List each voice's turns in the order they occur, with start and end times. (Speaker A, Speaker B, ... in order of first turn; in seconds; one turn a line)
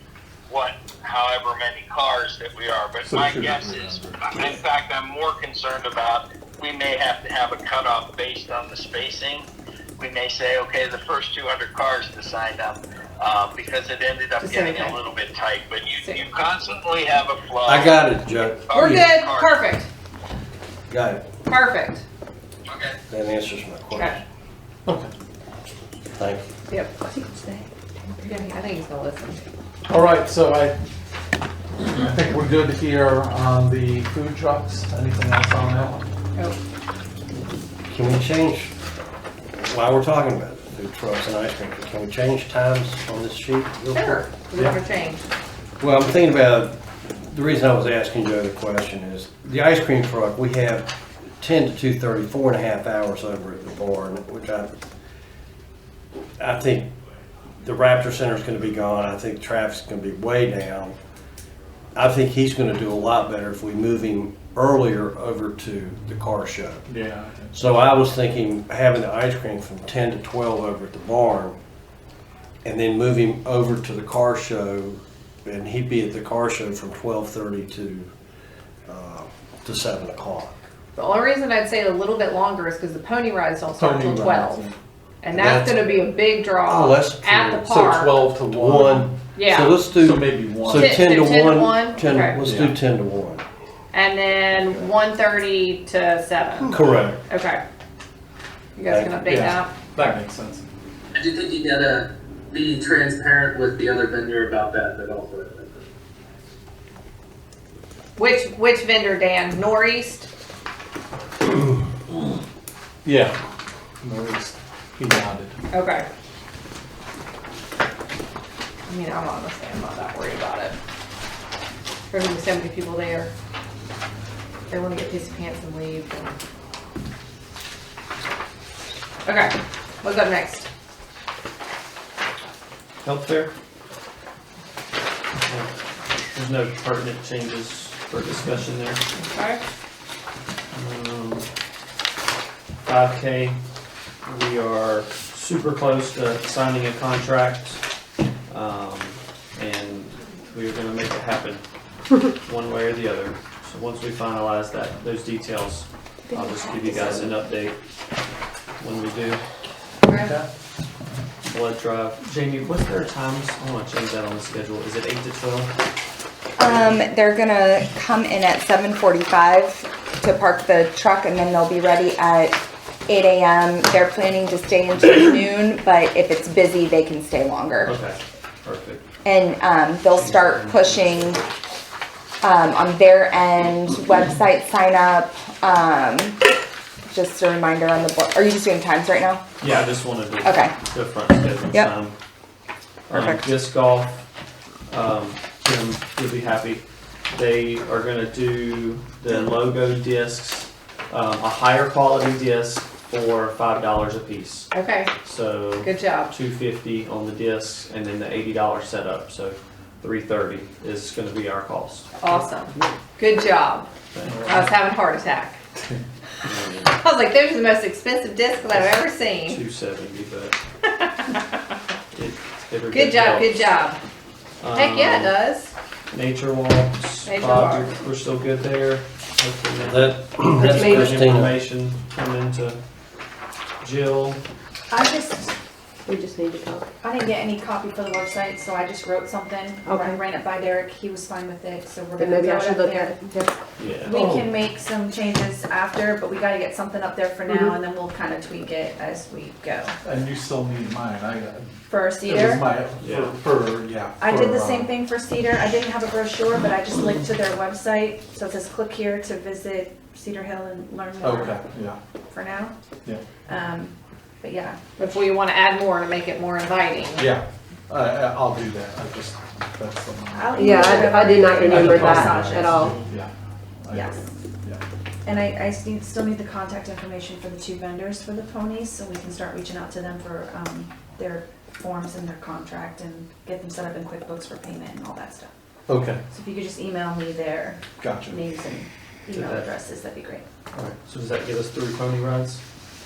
Speaker A: 0.5-9.5
Speaker B: 3.0-4.6
Speaker A: 10.0-19.6
Speaker C: 14.4-15.0
Speaker C: 16.0-16.3
Speaker D: 17.7-19.1
Speaker C: 18.8-19.9
Speaker D: 20.9-21.2
Speaker C: 21.5-22.0
Speaker A: 22.7-22.9
Speaker D: 23.1-24.2
Speaker C: 23.9-24.2
Speaker B: 24.9-25.1
Speaker D: 26.1-26.5
Speaker C: 26.7-27.0
Speaker C: 28.3-29.4
Speaker B: 29.9-30.8
Speaker B: 31.9-36.1
Speaker D: 37.9-38.7
Speaker D: 39.6-44.2
Speaker C: 43.9-45.3
Speaker D: 45.8-54.7
Speaker D: 56.4-56.9
Speaker D: 57.6-61.0
Speaker D: 61.9-66.9
Speaker B: 66.9-67.7
Speaker D: 67.5-71.6
Speaker D: 72.6-78.1
Speaker D: 78.9-80.6
Speaker C: 80.9-84.7
Speaker B: 83.8-84.8
Speaker C: 85.2-88.2
Speaker D: 85.3-86.0
Speaker D: 86.6-87.9
Speaker B: 87.6-89.2
Speaker D: 88.5-93.4
Speaker C: 89.3-89.8
Speaker B: 89.8-91.1
Speaker C: 90.7-92.4
Speaker B: 92.4-92.8
Speaker C: 93.9-97.6
Speaker D: 96.7-97.2
Speaker B: 96.8-97.1
Speaker C: 98.8-99.7
Speaker B: 99.2-100.6
Speaker E: 101.2-105.7
Speaker C: 108.2-110.3
Speaker B: 113.0-113.4
Speaker B: 114.0-115.6
Speaker C: 115.7-116.0
Speaker C: 118.9-120.8
Speaker C: 122.1-123.3
Speaker C: 124.7-126.3
Speaker C: 129.2-130.7
Speaker F: 133.0-133.5
Speaker F: 136.3-139.0
Speaker C: 139.2-139.6
Speaker F: 140.7-141.5
Speaker F: 142.8-143.6
Speaker F: 144.2-147.8
Speaker F: 148.5-151.6
Speaker F: 152.3-157.8
Speaker G: 156.3-157.3
Speaker F: 158.8-159.4
Speaker C: 160.1-160.3
Speaker F: 161.4-165.7
Speaker G: 166.6-177.9
Speaker F: 177.8-179.1
Speaker G: 179.2-181.4
Speaker F: 180.1-181.5
Speaker G: 182.4-186.4
Speaker G: 187.1-189.4
Speaker F: 189.6-192.2
Speaker G: 190.4-190.8
Speaker F: 193.1-194.2
Speaker G: 193.1-193.4
Speaker F: 194.9-204.7
Speaker C: 204.7-205.1
Speaker F: 205.2-212.4
Speaker C: 205.8-206.3
Speaker C: 212.2-213.9
Speaker F: 214.1-214.5
Speaker B: 214.2-214.7
Speaker C: 214.4-215.6
Speaker B: 215.8-216.0
Speaker F: 216.4-217.0
Speaker C: 216.9-219.6
Speaker F: 218.7-220.6
Speaker C: 220.9-221.4
Speaker F: 222.1-223.5
Speaker C: 222.9-224.0
Speaker F: 224.6-225.4
Speaker C: 224.7-225.7
Speaker F: 226.1-232.8
Speaker C: 227.2-227.9
Speaker D: 229.8-231.5
Speaker F: 233.8-234.4
Speaker H: 234.9-235.6
Speaker I: 236.0-236.9
Speaker H: 237.0-243.2
Speaker I: 239.8-240.2
Speaker I: 242.2-243.6
Speaker F: 243.8-244.2
Speaker H: 244.0-249.9
Speaker B: 244.1-244.5
Speaker B: 250.0-254.9
Speaker H: 251.9-252.7
Speaker F: 253.0-253.4
Speaker H: 254.2-261.6
Speaker B: 261.2-262.0
Speaker H: 262.3-262.8
Speaker H: 263.5-264.8
Speaker C: 265.0-267.3
Speaker B: 267.2-273.3
Speaker H: 270.3-273.0
Speaker I: 270.6-272.9
Speaker B: 273.8-274.8
Speaker H: 273.9-274.3
Speaker H: 275.2-285.5
Speaker B: 285.9-286.2
Speaker H: 286.3-290.4
Speaker B: 288.0-288.4
Speaker F: 289.3-289.7
Speaker F: 290.7-292.6